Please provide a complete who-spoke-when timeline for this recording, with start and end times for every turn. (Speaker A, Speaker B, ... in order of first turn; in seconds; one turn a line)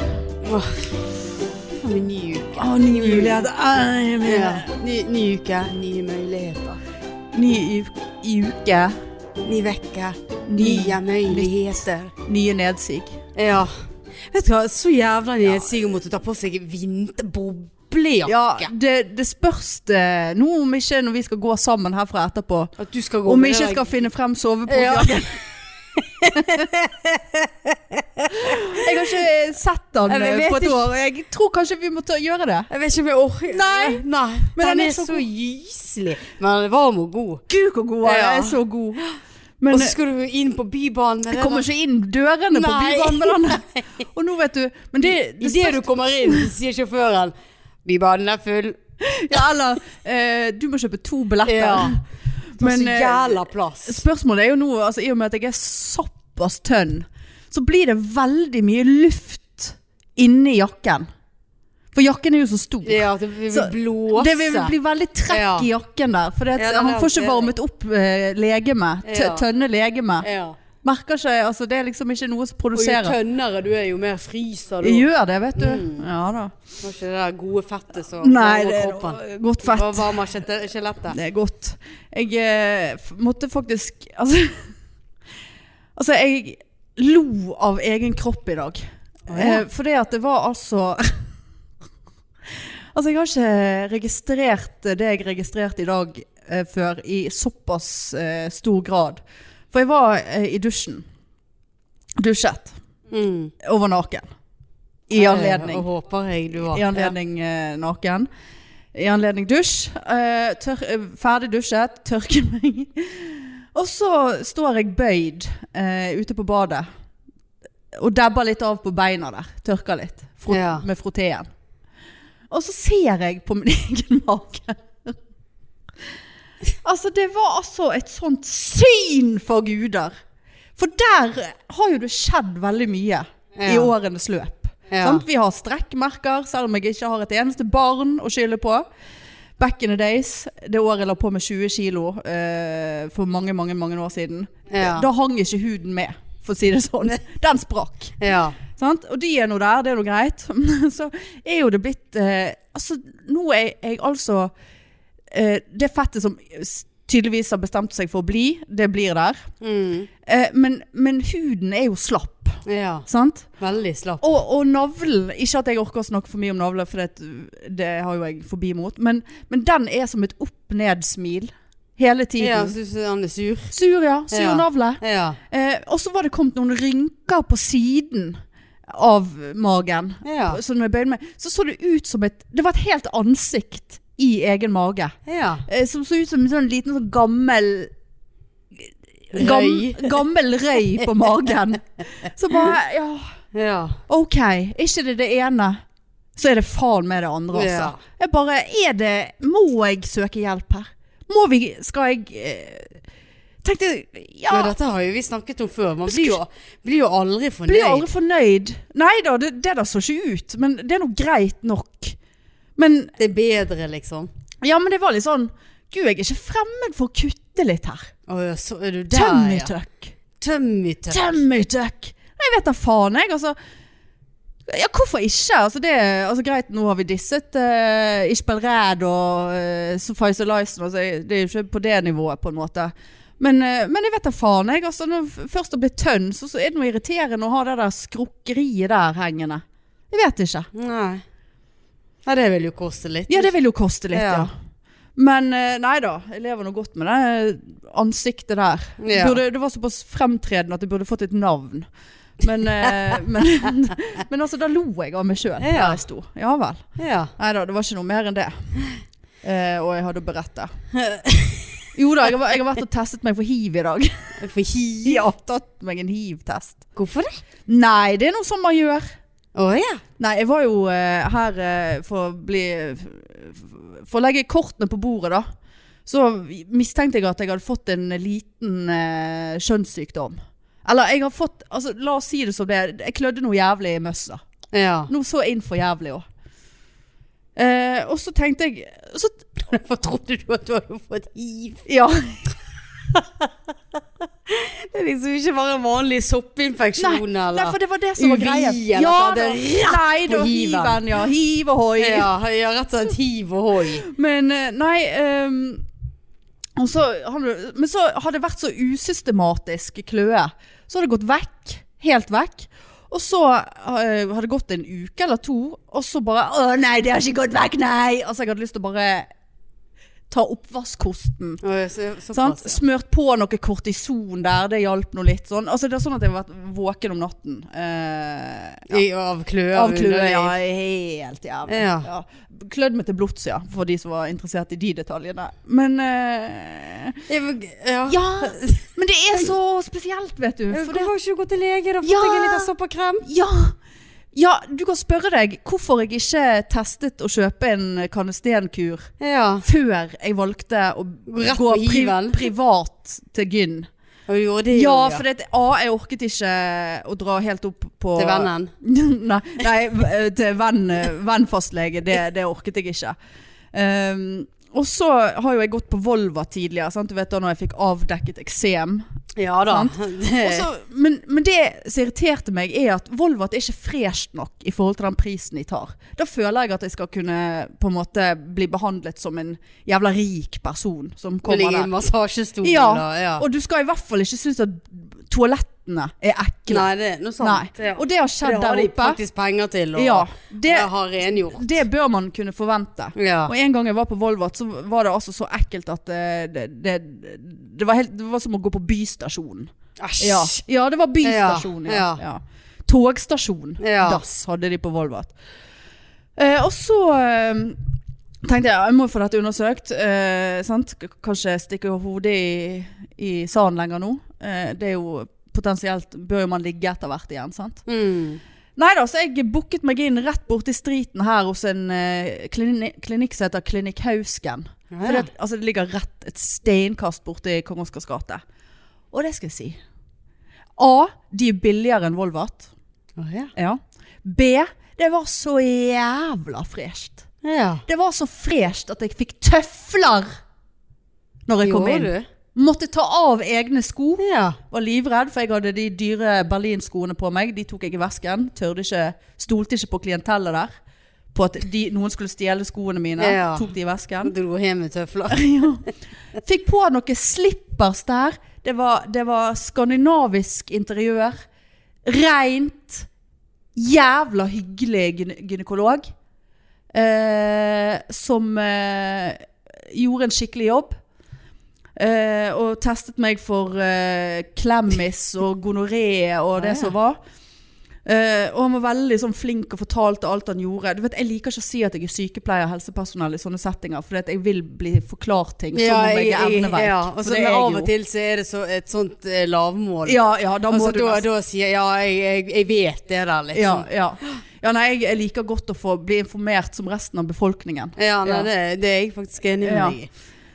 Speaker A: 0.4-0.9
Speaker A: 1.7-3.5
Speaker B: 2.6-4.7
Speaker A: 4.2-6.8
Speaker B: 7.3-8.9
Speaker A: 9.4-12.1
Speaker B: 10.5-11.5
Speaker B: 12.2-13.2
Speaker A: 13.3-13.7
Speaker A: 14.3-18.7
Speaker B: 18.3-22.7
Speaker A: 22.8-23.9
Speaker B: 23.2-25.4
Speaker A: 24.7-25.4
Speaker A: 25.9-29.2
Speaker B: 26.3-26.6
Speaker B: 28.4-32.7
Speaker A: 30.1-30.9
Speaker A: 32.7-37.4
Speaker B: 33.5-35.2
Speaker B: 37.5-39.0
Speaker A: 38.0-39.1
Speaker B: 39.6-40.0
Speaker A: 39.7-41.6
Speaker B: 41.3-46.5
Speaker A: 42.5-44.0
Speaker A: 45.4-47.3
Speaker A: 47.8-48.8
Speaker B: 49.0-52.0
Speaker A: 51.5-52.0
Speaker B: 52.5-61.1
Speaker A: 52.6-54.0
Speaker B: 61.9-70.2
Speaker A: 62.8-64.7
Speaker A: 65.3-65.7
Speaker A: 66.5-67.5
Speaker A: 69.0-69.4
Speaker A: 70.2-70.6
Speaker B: 70.8-73.2
Speaker A: 72.7-76.1
Speaker B: 74.8-76.5
Speaker A: 76.8-81.2
Speaker B: 78.2-80.2
Speaker B: 81.1-84.7
Speaker B: 86.0-88.8
Speaker A: 89.3-89.6
Speaker B: 89.3-91.3
Speaker B: 92.6-101.0
Speaker B: 102.2-102.7
Speaker A: 103.1-103.5
Speaker B: 103.6-104.2
Speaker B: 105.1-105.8
Speaker A: 105.2-107.1
Speaker B: 106.7-108.3
Speaker B: 108.9-116.9
Speaker B: 117.9-121.5
Speaker A: 120.5-120.8
Speaker B: 122.5-125.2
Speaker B: 126.8-130.1
Speaker B: 130.8-138.8
Speaker A: 133.6-133.9
Speaker A: 134.9-135.2
Speaker B: 139.6-148.2
Speaker A: 144.7-145.1
Speaker A: 148.2-148.6
Speaker B: 148.7-154.5
Speaker B: 155.3-159.4
Speaker A: 159.6-160.1
Speaker B: 160.2-163.5
Speaker A: 162.6-163.1
Speaker A: 163.6-164.2
Speaker B: 164.2-172.7
Speaker A: 172.4-173.7
Speaker B: 173.7-185.1
Speaker A: 174.3-175.4
Speaker A: 180.2-180.6
Speaker A: 185.2-185.6
Speaker B: 185.7-187.9
Speaker B: 188.8-193.3
Speaker A: 189.3-190.2
Speaker A: 193.5-194.0
Speaker B: 194.1-195.8
Speaker B: 196.3-203.0
Speaker A: 197.5-198.0
Speaker B: 203.6-204.7
Speaker A: 204.5-208.1
Speaker B: 206.1-206.4
Speaker B: 207.7-212.2
Speaker B: 212.8-213.1
Speaker A: 213.2-214.3
Speaker B: 214.6-218.1
Speaker A: 218.3-219.8
Speaker B: 219.1-220.1
Speaker A: 220.3-221.4
Speaker B: 221.1-223.6
Speaker B: 224.7-240.7
Speaker A: 240.7-241.2
Speaker A: 242.2-243.5
Speaker B: 243.3-244.5
Speaker A: 244.1-244.5
Speaker B: 245.2-251.9
Speaker A: 249.0-249.4
Speaker B: 252.4-256.8
Speaker A: 255.6-256.0
Speaker A: 257.0-257.3
Speaker B: 257.4-258.5
Speaker B: 259.4-260.7
Speaker A: 260.9-261.7
Speaker B: 261.9-264.4
Speaker A: 264.4-265.3
Speaker B: 265.0-266.8
Speaker A: 266.9-267.4
Speaker B: 267.7-269.1
Speaker A: 269.5-270.0
Speaker B: 270.2-275.4
Speaker B: 276.1-284.4
Speaker A: 284.7-285.1
Speaker B: 285.1-286.2
Speaker B: 287.6-289.6
Speaker A: 289.6-291.9
Speaker B: 291.9-292.4
Speaker A: 293.1-293.5
Speaker A: 294.5-301.1
Speaker B: 297.0-302.3
Speaker A: 302.0-304.1
Speaker B: 304.0-305.8
Speaker B: 306.8-319.3
Speaker B: 320.3-321.6
Speaker A: 321.6-322.8
Speaker B: 322.3-329.0
Speaker A: 328.9-330.5
Speaker B: 329.7-337.2
Speaker A: 331.7-332.1
Speaker A: 337.3-338.9
Speaker B: 338.1-341.1
Speaker A: 340.7-343.2
Speaker B: 342.0-342.7
Speaker B: 343.2-343.8
Speaker B: 344.3-349.1
Speaker A: 349.2-349.6
Speaker B: 349.6-353.9
Speaker A: 351.3-352.5
Speaker A: 354.3-355.2
Speaker B: 354.7-363.1
Speaker A: 358.2-358.7
Speaker B: 363.7-369.0
Speaker A: 369.4-370.7
Speaker B: 369.6-381.9
Speaker A: 381.5-383.4
Speaker B: 382.6-386.9
Speaker A: 386.7-391.7
Speaker B: 387.4-389.2
Speaker B: 389.9-405.3
Speaker A: 393.1-393.5
Speaker A: 400.0-400.6
Speaker A: 401.2-402.2
Speaker A: 403.8-404.2
Speaker B: 406.4-407.8
Speaker B: 408.4-417.8
Speaker A: 417.9-418.4
Speaker B: 418.8-428.4
Speaker A: 424.9-425.3
Speaker B: 429.1-429.8
Speaker B: 430.8-432.7
Speaker A: 433.2-433.5
Speaker B: 433.6-437.2
Speaker A: 437.4-437.8
Speaker B: 437.9-440.3
Speaker B: 441.5-450.7
Speaker A: 441.6-442.2
Speaker A: 444.2-444.6
Speaker B: 451.3-454.3
Speaker A: 453.2-455.7
Speaker B: 455.3-455.8
Speaker B: 456.4-461.4
Speaker B: 462.0-463.1
Speaker B: 463.8-466.1
Speaker B: 466.9-471.0
Speaker B: 472.0-477.2
Speaker A: 476.6-476.9
Speaker B: 478.0-487.9
Speaker A: 485.7-490.2
Speaker B: 490.1-491.2
Speaker A: 490.7-493.9
Speaker B: 493.5-498.5
Speaker A: 498.0-500.1
Speaker B: 499.6-500.0